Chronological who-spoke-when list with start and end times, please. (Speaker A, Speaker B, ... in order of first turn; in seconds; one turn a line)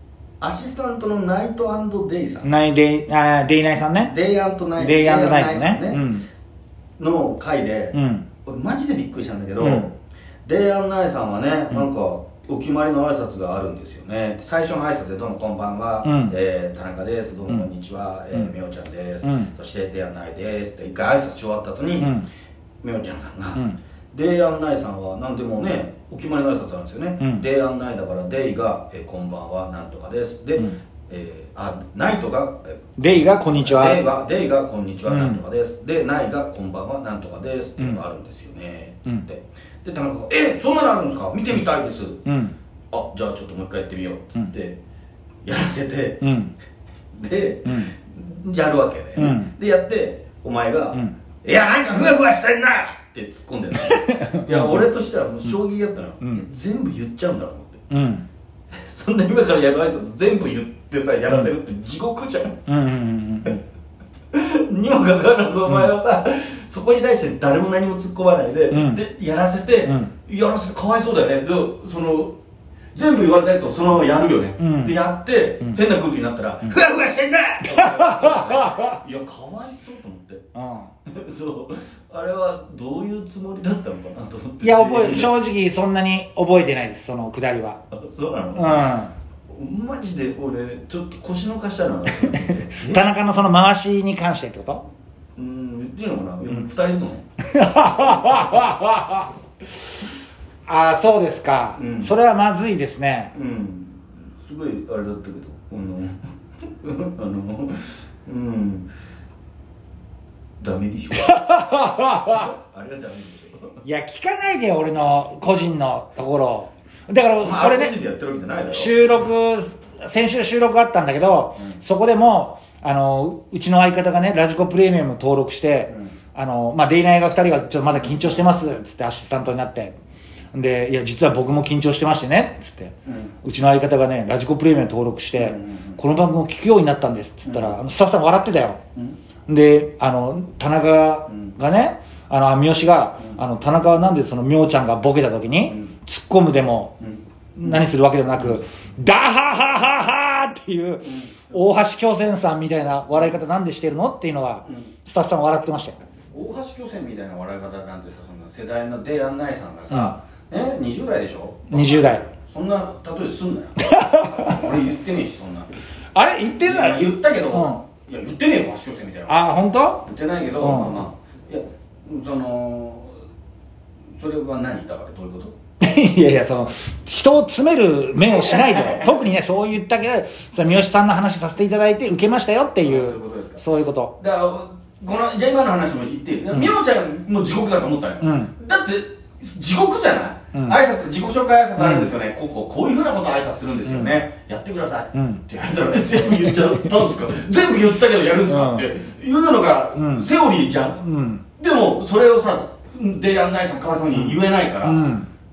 Speaker A: 0.4-2.5
Speaker B: 2.4-4.1
Speaker A: 4.0-6.0
Speaker B: 4.8-6.2
Speaker A: 7.0-9.9
Speaker B: 7.9-8.3
Speaker B: 9.6-9.9
Speaker A: 10.4-22.1
Speaker B: 16.1-16.3
Speaker B: 19.2-19.5
Speaker B: 22.0-22.3
Speaker A: 22.8-23.6
Speaker A: 24.1-42.2
Speaker B: 33.0-34.0
Speaker B: 35.1-35.4
Speaker B: 42.3-42.5
Speaker A: 42.9-44.8
Speaker A: 45.4-46.2
Speaker B: 46.2-46.5
Speaker A: 47.1-57.8
Speaker B: 47.7-47.9
Speaker B: 49.2-49.5
Speaker B: 53.8-54.8
Speaker B: 57.9-58.2
Speaker A: 58.7-62.6
Speaker B: 62.7-63.6
Speaker A: 64.3-72.3
Speaker B: 68.7-69.0
Speaker A: 72.9-80.4
Speaker B: 74.6-75.0
Speaker B: 77.7-79.0
Speaker B: 80.6-80.9
Speaker A: 81.1-85.3
Speaker B: 84.6-87.8
Speaker A: 87.9-89.0
Speaker B: 88.6-89.1
Speaker A: 89.5-93.0
Speaker B: 92.9-94.8
Speaker A: 95.4-97.3
Speaker B: 97.5-99.3
Speaker A: 98.0-98.5
Speaker B: 100.7-103.3
Speaker A: 101.8-102.1
Speaker A: 103.3-108.9
Speaker A: 110.6-113.8
Speaker B: 111.2-112.5
Speaker B: 113.8-118.0
Speaker A: 117.4-119.1
Speaker B: 118.7-130.0
Speaker A: 128.0-128.4
Speaker B: 130.5-138.8
Speaker A: 133.1-133.3
Speaker A: 135.3-136.0
Speaker A: 137.5-137.8
Speaker B: 139.5-147.0
Speaker A: 141.3-141.5
Speaker A: 147.0-147.8
Speaker B: 147.6-156.0
Speaker A: 151.0-151.6
Speaker A: 156.3-165.7
Speaker B: 159.9-160.2
Speaker B: 161.7-162.2
Speaker B: 163.8-164.6
Speaker B: 166.2-167.8
Speaker A: 166.6-173.1
Speaker B: 169.3-170.0
Speaker B: 170.6-171.0
Speaker A: 174.2-175.6
Speaker B: 175.8-184.2
Speaker A: 178.2-179.2
Speaker A: 182.8-183.6
Speaker A: 184.2-201.0
Speaker B: 188.2-188.5
Speaker B: 191.8-192.1
Speaker B: 193.9-194.2
Speaker B: 195.2-195.4
Speaker B: 196.2-196.9
Speaker B: 198.5-198.9
Speaker B: 200.0-200.3
Speaker B: 201.0-201.4
Speaker A: 201.6-205.0
Speaker B: 204.1-205.3